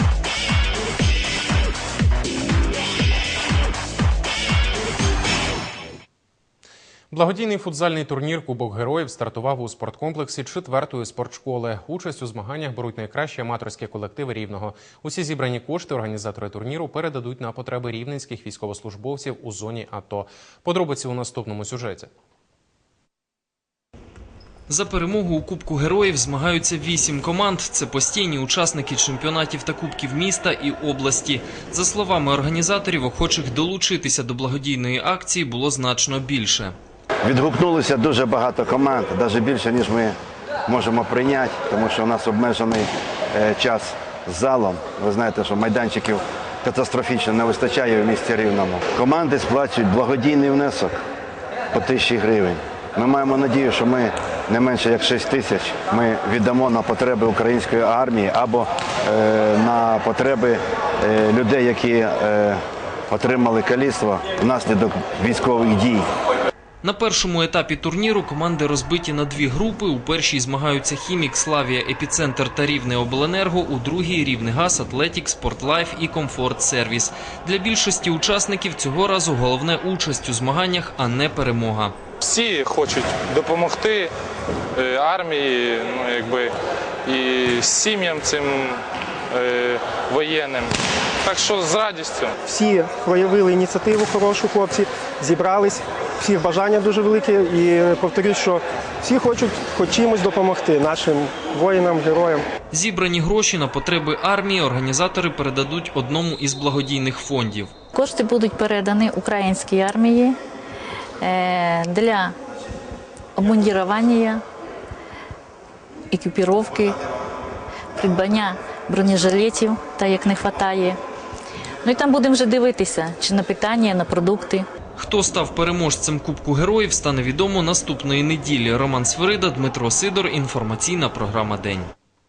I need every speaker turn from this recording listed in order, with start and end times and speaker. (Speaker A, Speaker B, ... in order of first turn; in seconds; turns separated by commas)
Speaker A: 7.1-22.1, Speaker B: 24.7-36.8, Speaker C: 37.3-40.1, Speaker C: 40.7-50.9, Speaker C: 51.7-62.6, Speaker C: 63.1-66.0, Speaker B: 66.8-81.9, Speaker D: 82.2-84.1, Speaker D: 84.8-86.5, Speaker D: 87.1-88.8, Speaker D: 89.3-90.7, Speaker D: 91.3-92.3, Speaker E: 92.4-102.4, Speaker B: 102.7-107.7, Speaker F: 107.9-110.4, Speaker F: 111.2-112.3, Speaker F: 113.4-114.4, Speaker F: 116.1-117.0, Speaker F: 118.0-121.0, Speaker F: 121.8-124.6, Speaker B: 125.0-131.9